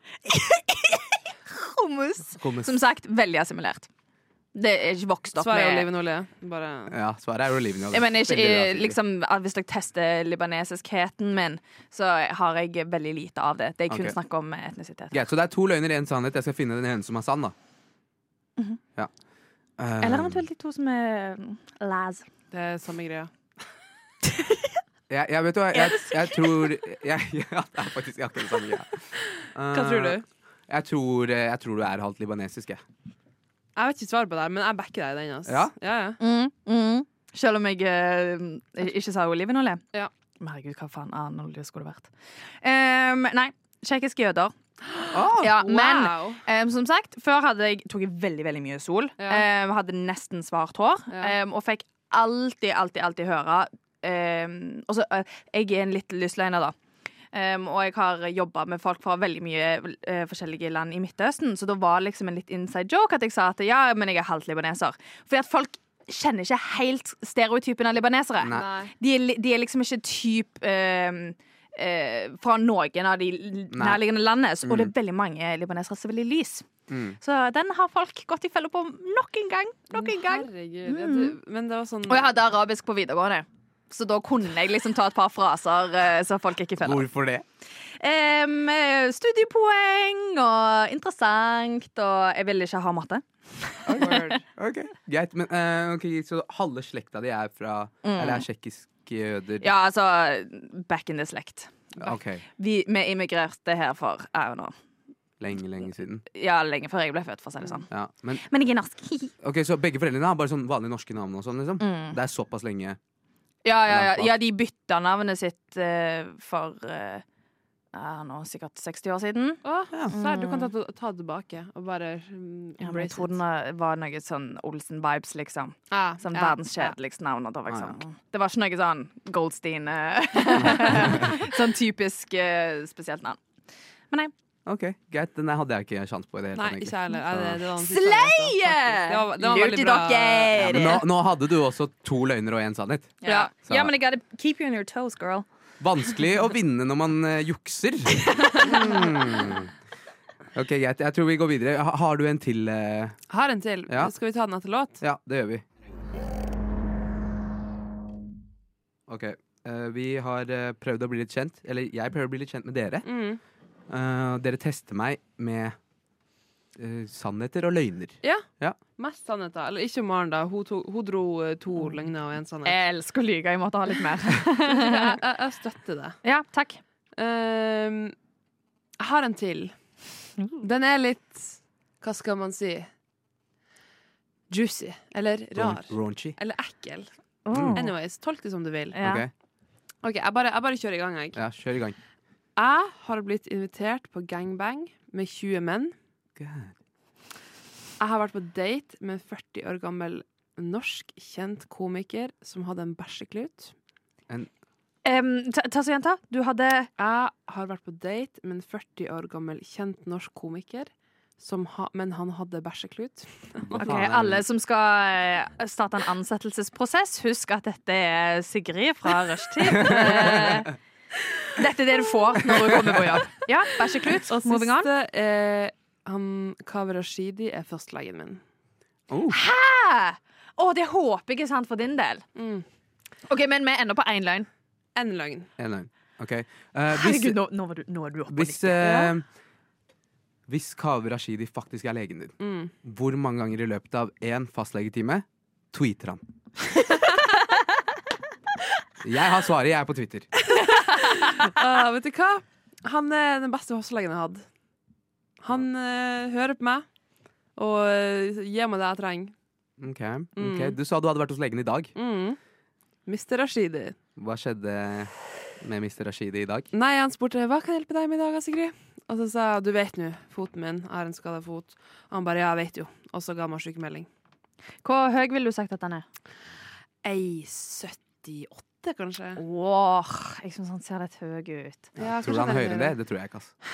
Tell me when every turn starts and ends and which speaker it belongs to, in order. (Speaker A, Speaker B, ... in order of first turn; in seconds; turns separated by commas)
Speaker A: 0.3-3.9, Speaker B: 2.4-2.8, Speaker A: 4.5-5.9, Speaker C: 5.4-7.0, Speaker B: 6.9-9.0, Speaker A: 7.9-15.2, Speaker B: 13.9-14.2, Speaker B: 15.1-17.6, Speaker B: 19.8-20.4, Speaker A: 20.0-22.3, Speaker C: 22.5-23.3, Speaker A: 24.4-24.7, Speaker B: 25.1-32.8, Speaker A: 25.7-26.6, Speaker C: 29.7-30.2, Speaker C: 33.8-36.2, Speaker B: 35.5-35.7, Speaker A: 36.2-39.8, Speaker A: 40.4-42.1, Speaker A: 42.6-44.5, Speaker C: 44.9-46.4, Speaker B: 45.1-45.5, Speaker A: 45.4-56.8, Speaker C: 49.2-49.5, Speaker A: 57.3-76.7, Speaker B: 68.4-68.7, Speaker C: 68.5-68.9, Speaker B: 73.7-74.0, Speaker B: 74.6-74.9, Speaker B: 76.9-77.2, Speaker A: 77.2-81.3, Speaker C: 79.9-82.3, Speaker A: 82.1-87.1, Speaker B: 86.8-87.5, Speaker A: 88.0-94.4, Speaker B: 93.9-99.7, Speaker C: 93.9-94.4, Speaker A: 98.0-98.5, Speaker A: 99.6-101.9, Speaker B: 102.0-102.4, Speaker A: 102.6-104.7, Speaker B: 105.4-106.2, Speaker A: 106.3-107.9, Speaker B: 107.9-108.4, Speaker A: 108.4-109.3, Speaker B: 109.4-113.0, Speaker A: 111.8-112.2, Speaker A: 113.7-117.2, Speaker B: 113.9-114.4, Speaker A: 117.9-120.7, Speaker C: 119.6-123.4, Speaker A: 122.8-133.4, Speaker C: 125.9-126.9, Speaker B: 127.7-128.0, Speaker B: 130.8-131.3, Speaker B: 134.7-137.6, Speaker C: 136.6-140.9, Speaker A: 137.8-141.0, Speaker B: 140.6-143.9, Speaker A: 143.2-145.5, Speaker C: 143.2-143.5, Speaker B: 145.8-149.7, Speaker C: 148.6-149.0, Speaker B: 150.6-153.2, Speaker C: 153.3-155.0, Speaker B: 153.9-154.1, Speaker B: 155.0-155.6, Speaker B: 159.1-163.1, Speaker C: 163.0-163.4, Speaker B: 163.9-165.8, Speaker B: 166.8-168.8, Speaker C: 168.2-172.8, Speaker A: 172.7-175.2, Speaker C: 174.6-176.2, Speaker A: 176.2-176.8, Speaker C: 177.2-178.1, Speaker C: 179.0-179.7, Speaker C: 180.6-182.9, Speaker C: 184.5-187.1, Speaker B: 185.6-186.4, Speaker A: 187.5-187.9, Speaker B: 187.5-187.8, Speaker C: 187.7-189.0, Speaker A: 188.9-189.3, Speaker B: 189.0-189.3, Speaker C: 190.0-191.4, Speaker B: 191.3-192.0, Speaker C: 192.6-195.9, Speaker B: 196.4-196.7, Speaker C: 198.0-203.7, Speaker A: 205.1-206.9, Speaker C: 207.0-214.0, Speaker B: 213.6-214.4, Speaker A: 213.8-220.7, Speaker B: 219.8-220.5, Speaker C: 219.8-220.6, Speaker A: 221.5-224.9, Speaker B: 222.5-223.2, Speaker C: 224.3-228.4, Speaker B: 229.1-229.4, Speaker A: 229.3-232.2, Speaker C: 232.4-232.7, Speaker A: 233.3-234.5, Speaker C: 235.0-235.5, Speaker B: 235.6-237.4, Speaker A: 236.9-239.1, Speaker B: 238.3-239.2, Speaker B: 240.5-246.2, Speaker C: 242.4-242.7, Speaker B: 249.0-250.3, Speaker C: 250.8-254.4, Speaker C: 255.4-256.9, Speaker C: 257.6-259.3, Speaker B: 259.8-261.9, Speaker C: 260.4-260.8, Speaker C: 262.0-262.4, Speaker C: 263.1-264.0, Speaker B: 264.2-266.7, Speaker C: 266.7-274.1, Speaker A: 274.8-276.1, Speaker C: 277.0-279.4, Speaker A: 279.4-281.9, Speaker B: 282.0-283.6, Speaker C: 282.0-283.0